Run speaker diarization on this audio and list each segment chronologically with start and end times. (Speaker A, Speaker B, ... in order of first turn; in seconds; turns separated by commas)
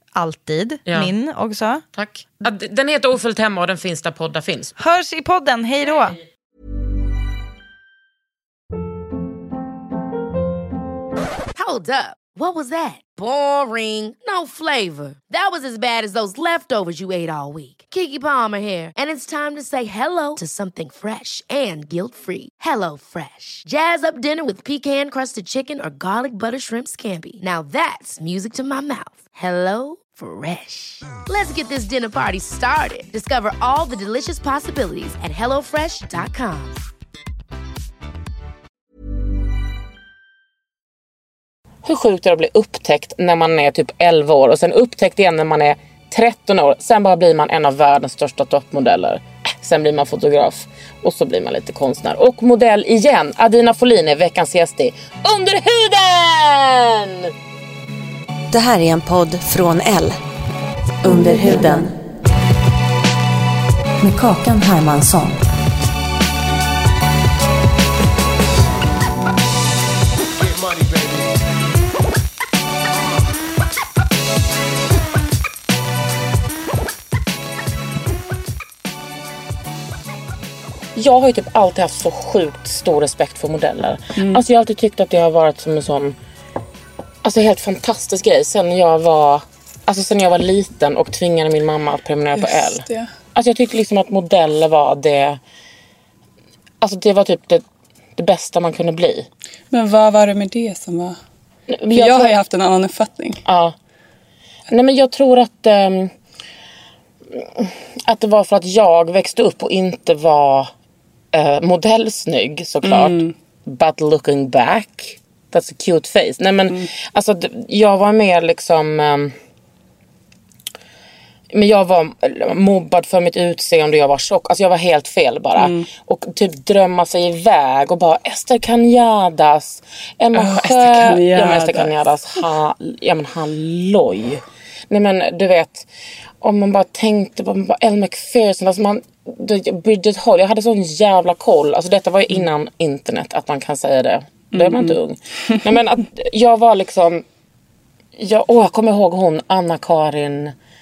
Speaker A: 0.1-1.8, Speaker B: 0.9-1.1, Speaker B: 1.9-4.7, Speaker A: 4.8-6.2, Speaker C: 11.6-36.9, Speaker B: 41.8-57.3, Speaker D: 58.5-60.2, Speaker D: 61.0-61.9, Speaker D: 64.0-65.4, Speaker B: 81.0-86.2, Speaker E: 84.2-84.4, Speaker B: 87.2-95.4, Speaker E: 92.4-93.1, Speaker B: 96.8-97.7, Speaker B: 98.2-99.3, Speaker E: 99.7-101.2, Speaker B: 101.7-102.3, Speaker E: 101.9-103.4, Speaker B: 103.5-103.8, Speaker B: 104.7-106.1, Speaker B: 107.3-110.7, Speaker B: 111.3-119.3, Speaker E: 112.8-113.3, Speaker B: 121.5-135.9, Speaker E: 125.6-125.9, Speaker E: 130.3-131.9, Speaker B: 136.4-147.2, Speaker E: 144.5-145.0, Speaker B: 148.2-150.6